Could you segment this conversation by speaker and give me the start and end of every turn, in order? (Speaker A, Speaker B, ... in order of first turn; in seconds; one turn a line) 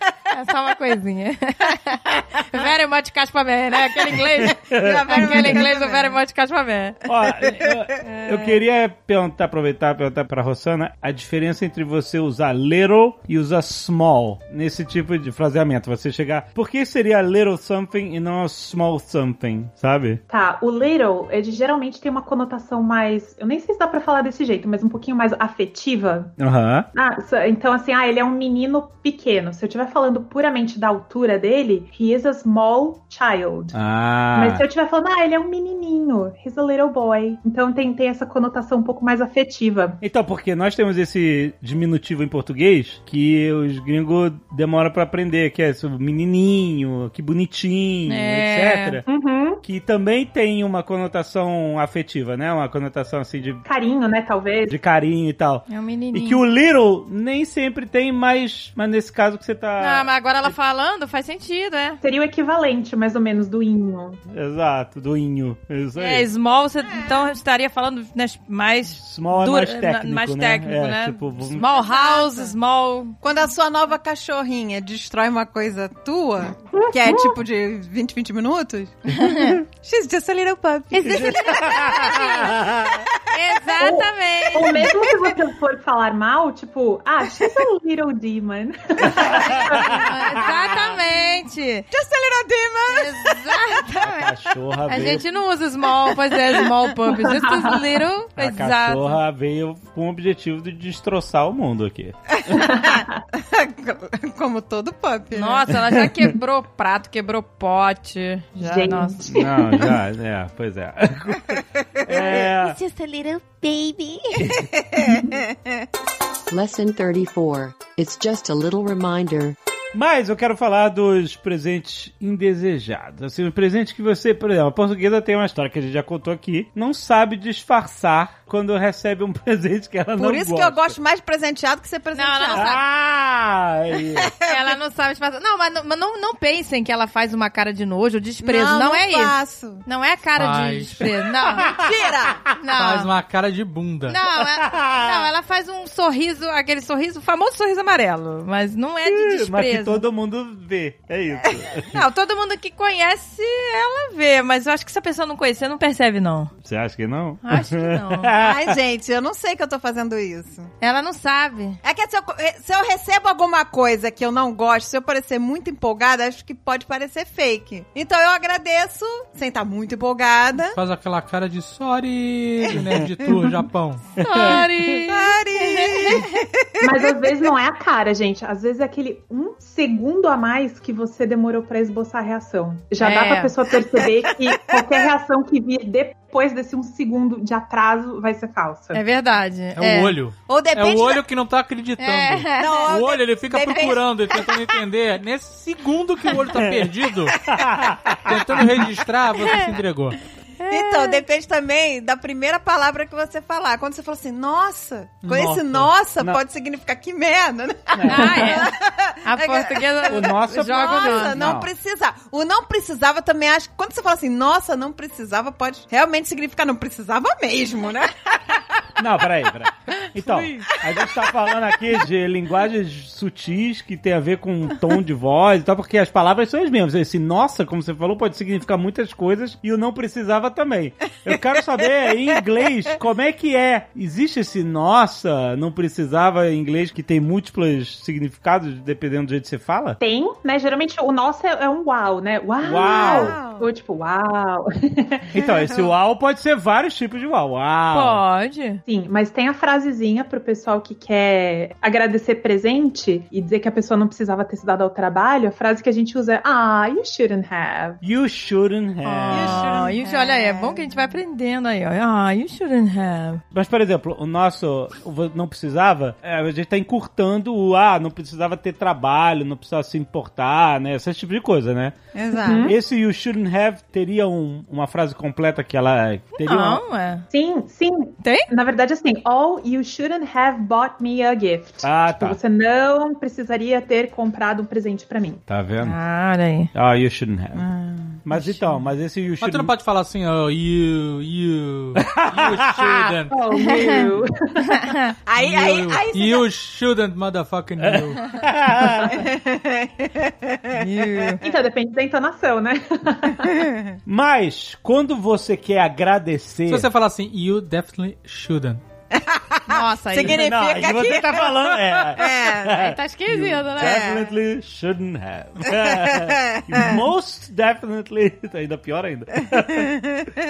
Speaker A: 0.3-7.0
Speaker B: 4.5-5.6
Speaker C: 4.7-6.2
Speaker B: 7.0-20.2
Speaker A: 8.0-8.6
Speaker D: 20.3-26.3
Speaker B: 26.4-26.9
Speaker D: 26.9-33.8
Speaker B: 33.7-34.6
Speaker D: 34.3-40.0
Speaker B: 40.0-49.0
Speaker A: 48.1-49.0
Speaker D: 49.1-49.6
Speaker B: 49.6-53.6
Speaker D: 53.6-54.8
Speaker B: 54.7-60.1
Speaker A: 55.7-56.4
Speaker A: 59.8-62.0
Speaker D: 62.0-64.2
Speaker B: 64.3-66.3
Speaker A: 66.0-73.2
Speaker B: 69.0-71.7
Speaker C: 71.7-72.5
Speaker C: 73.2-82.7
Speaker D: 76.8-77.4
Speaker A: 79.1-79.6
Speaker A: 80.9-82.6
Speaker B: 81.0-83.0
Speaker A: 83.3-84.9
Speaker D: 83.8-90.1
Speaker B: 89.0-90.9
Speaker A: 89.3-91.9
Speaker C: 91.9-93.6
Speaker A: 92.9-94.3
Speaker B: 94.0-95.2
Speaker A: 94.8-99.2
Speaker D: 97.2-97.8
Speaker B: 98.3-102.8
Speaker C: 102.3-105.7
Speaker A: 105.3-109.3
Speaker D: 108.6-109.9
Speaker B: 109.3-112.8
Speaker A: 112.3-114.4
Speaker B: 114.4-114.7
Speaker C: 114.5-115.7
Speaker E: 116.5-119.5
Speaker B: 119.9-131.0
Speaker C: 130.2-132.7
Speaker A: 132.1-132.8
Speaker B: 132.5-134.3
Speaker C: 134.1-134.7
Speaker A: 134.4-141.8
Speaker C: 138.4-139.8
Speaker F: 140.3-141.1
Speaker C: 141.6-142.4
Speaker A: 142.6-143.1
Speaker F: 142.7-144.2
Speaker A: 144.1-150.0
Speaker B: 144.4-145.3
Speaker B: 149.0-152.0
Speaker A: 151.9-156.5
Speaker B: 156.6-158.8
Speaker A: 157.4-158.3
Speaker C: 158.4-160.7
Speaker A: 160.8-161.8
Speaker C: 161.8-170.8
Speaker F: 170.7-174.1
Speaker A: 174.2-176.3
Speaker B: 174.2-174.7
Speaker C: 175.1-177.4
Speaker D: 176.8-189.0
Speaker A: 183.0-183.5
Speaker A: 188.9-190.2
Speaker F: 189.8-197.4
Speaker C: 190.5-191.2
Speaker A: 192.0-192.9
Speaker C: 192.6-194.7
Speaker B: 197.4-198.7
Speaker F: 198.2-200.2
Speaker A: 199.4-199.7
Speaker A: 200.6-201.2
Speaker C: 200.7-218.6
Speaker B: 205.2-205.6
Speaker B: 207.9-208.6
Speaker A: 208.0-208.7
Speaker A: 209.2-211.4
Speaker B: 210.1-211.7
Speaker B: 219.0-240.0
Speaker F: 220.2-220.6
Speaker C: 220.6-221.3
Speaker D: 240.0-245.3
Speaker B: 242.6-243.4
Speaker C: 242.8-243.7
Speaker B: 245.3-248.2
Speaker C: 245.4-245.9
Speaker A: 247.9-248.8
Speaker D: 248.9-258.0
Speaker B: 258.0-259.9
Speaker A: 259.0-263.4
Speaker C: 259.3-260.8
Speaker B: 263.5-271.9
Speaker C: 272.1-272.7
Speaker D: 272.4-272.8
Speaker B: 272.6-276.8
Speaker A: 276.4-277.2
Speaker D: 277.3-285.4
Speaker A: 278.2-278.5
Speaker B: 281.8-282.4
Speaker B: 285.5-285.9
Speaker A: 285.8-286.7
Speaker B: 286.7-287.7
Speaker C: 287.5-288.1
Speaker B: 288.2-289.7
Speaker F: 289.4-293.4
Speaker B: 291.9-293.1
Speaker D: 293.3-294.9
Speaker C: 295.3-296.5
Speaker F: 295.4-298.3
Speaker B: 297.8-299.2
Speaker C: 299.0-301.3
Speaker A: 300.7-301.4
Speaker D: 301.4-303.6
Speaker C: 303.5-303.9
Speaker B: 304.1-306.9
Speaker F: 306.7-308.8
Speaker C: 309.1-312.9
Speaker A: 309.7-310.4
Speaker B: 310.2-319.9
Speaker A: 312.7-314.3
Speaker C: 313.8-314.2
Speaker C: 315.7-316.9
Speaker C: 320.0-320.3